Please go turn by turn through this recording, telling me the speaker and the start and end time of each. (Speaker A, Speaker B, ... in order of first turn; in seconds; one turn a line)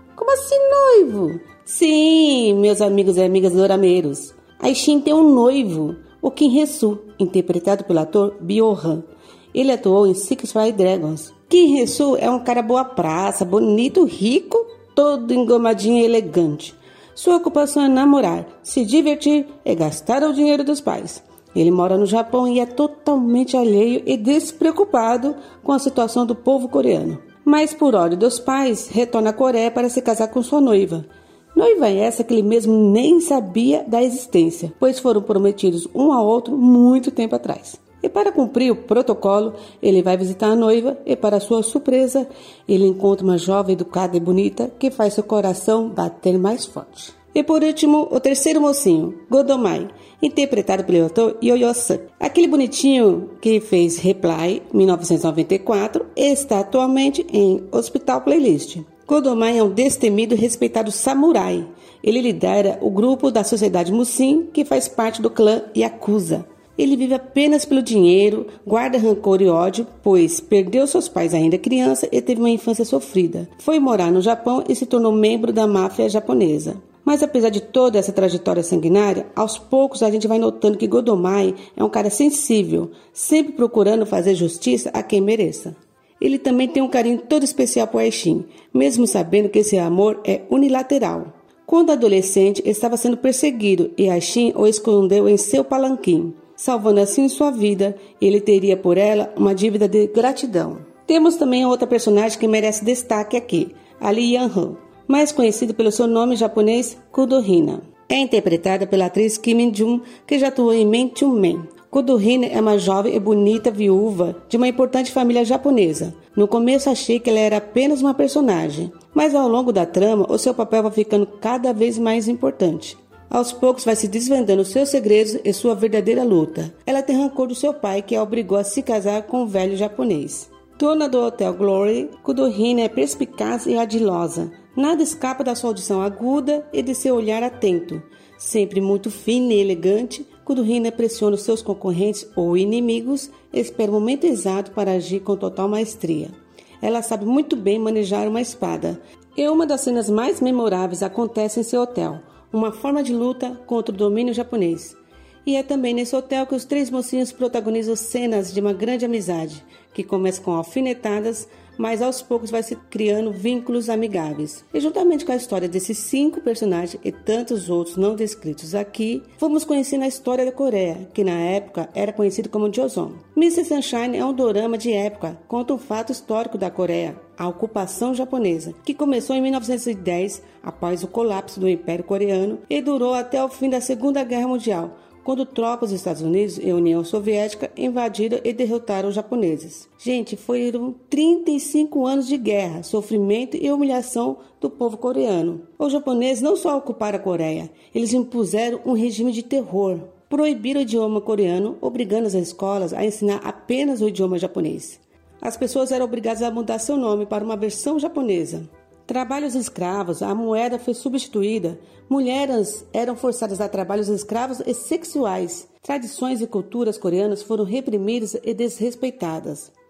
Speaker A: 0.1-219.7